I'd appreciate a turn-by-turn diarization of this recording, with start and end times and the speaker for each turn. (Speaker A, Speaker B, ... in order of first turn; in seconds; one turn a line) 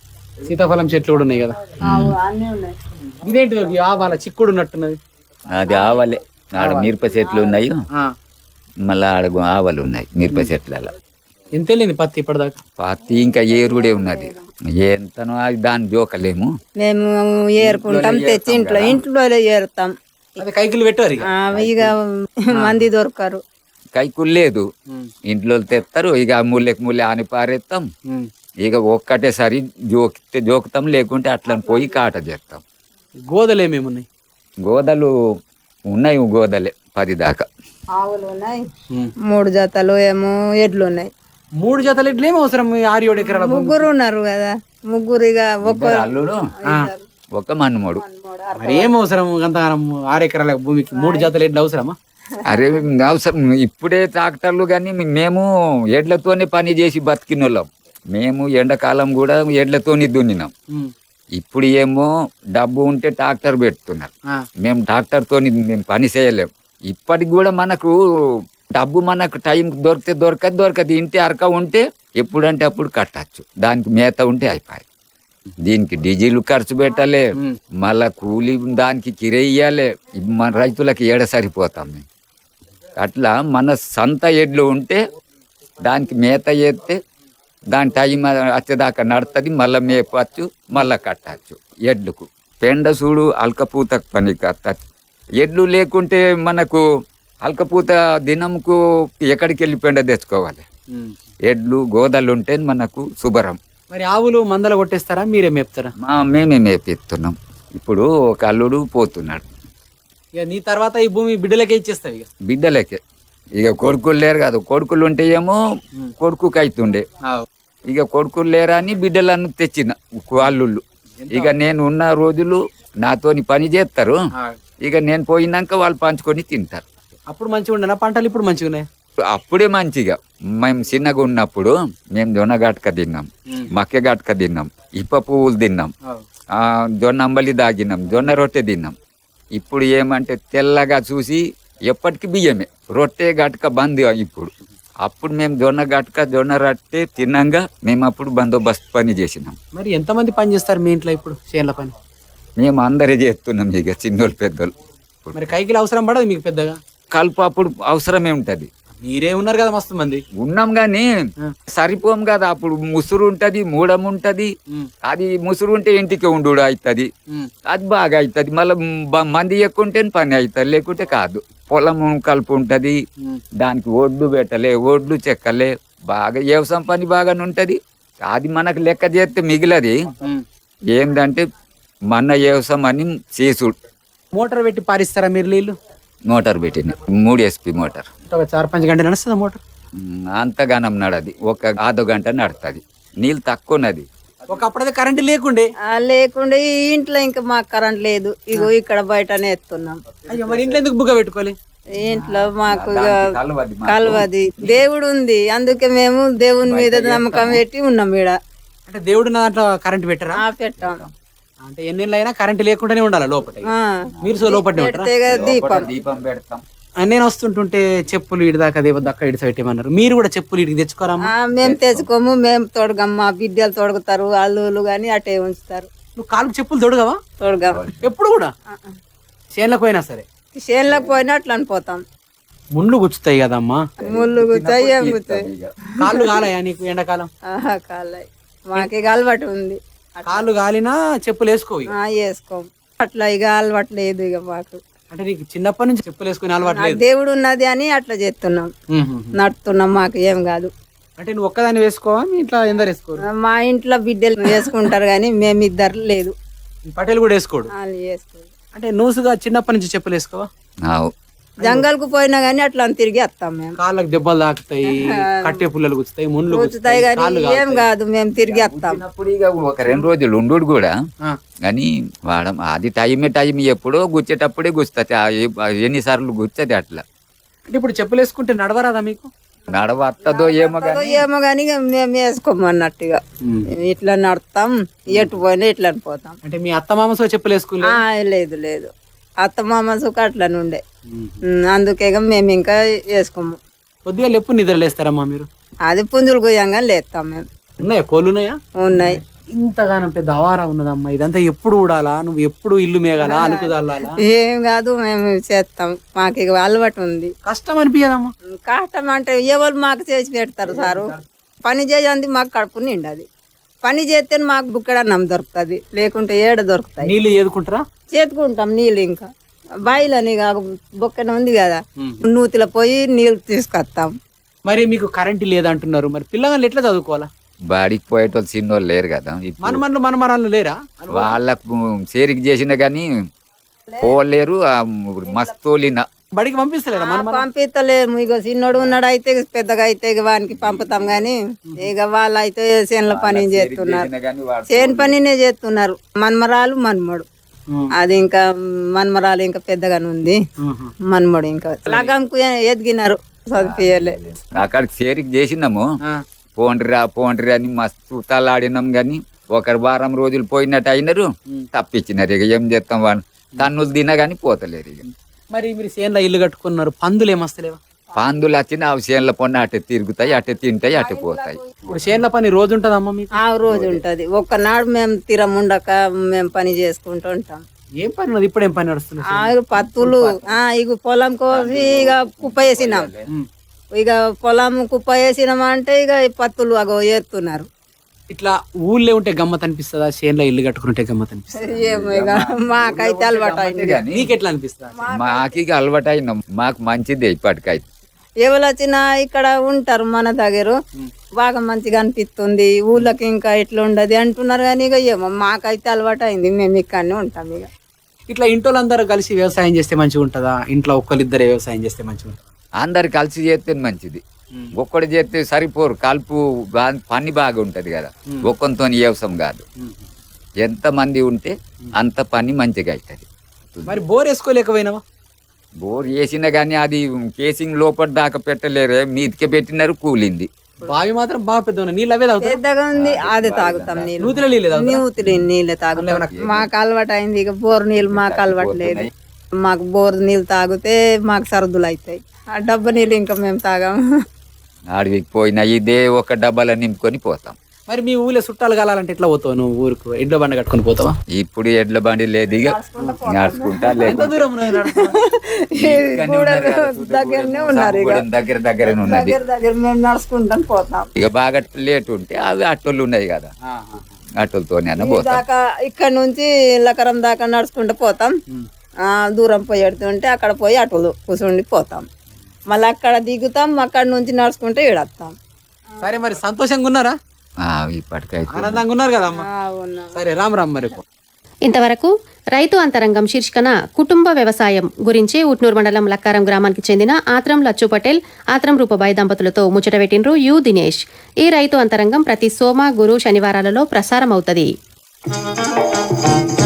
Speaker A: 0.5-1.8
Speaker B: 1.8-2.2
Speaker C: 1.8-2.8
Speaker A: 3.2-5.0
Speaker B: 5.5-7.8
Speaker A: 6.6-6.9
Speaker C: 7.2-7.5
Speaker B: 8.9-10.9
Speaker A: 11.6-12.6
Speaker B: 12.8-16.5
Speaker C: 13.5-14.4
Speaker C: 16.8-20.4
Speaker B: 17.6-19.0
Speaker A: 20.4-21.3
Speaker C: 21.3-22.0
Speaker B: 21.5-21.9
Speaker A: 22.5-22.9
Speaker C: 22.5-23.4
Speaker B: 23.9-24.6
Speaker B: 25.3-27.9
Speaker B: 28.6-32.6
Speaker A: 33.3-34.1
Speaker B: 34.7-35.1
Speaker B: 35.9-37.5
Speaker C: 38.0-38.6
Speaker C: 39.3-41.1
Speaker A: 41.6-43.9
Speaker C: 43.2-46.0
Speaker B: 45.6-46.4
Speaker C: 46.6-47.0
Speaker B: 47.4-48.0
Speaker C: 48.0-48.9
Speaker A: 48.6-52.0
Speaker C: 50.9-51.3
Speaker B: 52.5-60.5
Speaker B: 61.4-67.9
Speaker B: 68.8-74.8
Speaker B: 75.7-82.0
Speaker B: 83.0-85.0
Speaker B: 85.8-87.0
Speaker B: 87.7-94.8
Speaker B: 95.4-96.8
Speaker B: 97.4-100.6
Speaker B: 101.5-103.6
Speaker A: 103.9-105.9
Speaker B: 106.0-109.5
Speaker A: 110.4-112.3
Speaker B: 112.5-113.0
Speaker B: 113.6-115.6
Speaker B: 116.2-117.0
Speaker B: 117.9-124.2
Speaker A: 121.2-121.5
Speaker B: 124.8-126.9
Speaker A: 127.3-128.9
Speaker B: 129.3-135.9
Speaker B: 136.6-138.9
Speaker B: 139.6-144.5
Speaker B: 145.0-149.6
Speaker A: 149.7-151.9
Speaker B: 152.6-154.7
Speaker A: 155.3-156.8
Speaker B: 157.1-158.7
Speaker A: 159.0-160.2
Speaker B: 160.4-161.1
Speaker B: 161.7-164.5
Speaker B: 165.0-167.1
Speaker B: 167.7-173.0
Speaker B: 173.6-180.1
Speaker B: 180.9-181.4
Speaker B: 182.1-183.7
Speaker A: 184.3-185.8
Speaker B: 186.3-188.1
Speaker A: 188.3-189.6
Speaker B: 190.0-194.1
Speaker A: 194.5-195.7
Speaker C: 195.9-200.1
Speaker A: 200.3-201.6
Speaker C: 202.0-203.2
Speaker B: 202.1-204.3
Speaker C: 203.9-208.4
Speaker B: 206.7-207.6
Speaker A: 208.9-210.4
Speaker C: 210.3-211.0
Speaker B: 210.8-211.1
Speaker A: 211.6-213.7
Speaker C: 213.7-215.9
Speaker A: 214.2-215.1
Speaker B: 215.3-216.6
Speaker A: 217.0-221.3
Speaker C: 221.2-225.9
Speaker B: 221.6-222.1
Speaker A: 226.2-227.2
Speaker C: 227.4-227.8
Speaker B: 227.7-228.1
Speaker A: 228.0-228.5
Speaker A: 229.6-230.2
Speaker C: 230.6-232.0
Speaker A: 232.8-233.8
Speaker C: 234.0-235.5
Speaker B: 234.0-235.7
Speaker A: 236.0-237.3
Speaker C: 236.0-236.4
Speaker C: 237.5-240.5
Speaker A: 240.3-241.9
Speaker C: 241.9-244.8
Speaker A: 245.1-247.0
Speaker C: 246.7-248.7
Speaker A: 248.9-249.4
Speaker C: 249.4-250.7
Speaker A: 251.2-253.2
Speaker C: 253.3-256.3
Speaker A: 256.9-257.7
Speaker C: 257.8-258.5
Speaker A: 258.7-260.5
Speaker B: 260.9-261.1
Speaker C: 261.6-263.8
Speaker A: 263.8-267.9
Speaker C: 264.9-265.6
Speaker C: 266.5-269.0
Speaker B: 268.4-270.9
Speaker B: 271.6-277.0
Speaker A: 277.7-279.3
Speaker B: 279.7-281.2
Speaker C: 280.2-283.2
Speaker C: 283.8-286.4
Speaker A: 286.4-288.0
Speaker C: 287.9-288.9
Speaker C: 289.4-290.8
Speaker A: 291.1-291.4
Speaker C: 291.5-293.6
Speaker A: 294.1-295.5
Speaker C: 295.9-297.4
Speaker A: 297.8-304.2
Speaker C: 298.8-299.2
Speaker C: 303.2-303.7
Speaker C: 304.2-307.3
Speaker A: 307.4-308.3
Speaker C: 308.6-311.1
Speaker A: 310.7-311.2
Speaker C: 311.6-313.2
Speaker C: 313.8-317.1
Speaker A: 317.0-317.8
Speaker C: 318.1-324.1
Speaker A: 324.7-327.3
Speaker B: 327.7-329.8
Speaker A: 329.6-331.4
Speaker B: 331.1-333.1
Speaker B: 334.0-336.1
Speaker A: 336.4-337.5
Speaker C: 336.9-344.1
Speaker B: 340.6-341.2
Speaker B: 343.1-345.2
Speaker C: 344.7-347.3
Speaker C: 348.0-348.4
Speaker C: 348.9-350.4
Speaker A: 350.6-350.9
Speaker C: 351.1-354.2
Speaker A: 351.9-352.1
Speaker B: 353.6-355.8
Speaker B: 356.6-365.0
Speaker A: 365.5-367.8
Speaker B: 368.2-371.6
Speaker C: 370.9-372.0
Speaker A: 371.9-373.9
Speaker C: 373.4-377.6
Speaker A: 378.0-379.5
Speaker C: 379.3-383.1
Speaker B: 379.9-380.6
Speaker B: 381.5-383.3
Speaker C: 384.0-387.7
Speaker A: 388.3-391.8
Speaker C: 391.6-394.0
Speaker B: 391.8-394.3
Speaker A: 394.1-395.0
Speaker C: 395.0-395.6
Speaker B: 395.1-397.9
Speaker C: 398.4-400.8
Speaker C: 401.4-407.7
Speaker A: 408.3-412.4
Speaker B: 412.8-414.2
Speaker B: 414.8-419.6
Speaker B: 420.6-424.0
Speaker A: 423.9-425.0
Speaker B: 425.8-430.5
Speaker A: 430.8-432.6
Speaker C: 432.4-439.1
Speaker B: 432.9-434.1
Speaker A: 434.2-435.1
Speaker A: 436.0-436.4
Speaker B: 436.3-436.6
Speaker B: 438.1-439.1
Speaker C: 439.6-444.0
Speaker B: 444.9-447.6
Speaker A: 447.9-451.1
Speaker B: 451.3-454.4
Speaker C: 452.7-458.2
Speaker A: 454.0-455.2
Speaker B: 455.8-459.4
Speaker C: 458.9-461.1
Speaker B: 461.2-463.5
Speaker A: 463.7-464.1
Speaker B: 464.4-465.4
Speaker C: 465.0-468.3
Speaker C: 469.1-472.1
Speaker C: 472.7-475.3
Speaker A: 476.0-477.1
Speaker B: 477.6-478.8
Speaker A: 478.5-479.4
Speaker C: 479.3-480.1
Speaker A: 480.1-481.0
Speaker D: 481.6-494.7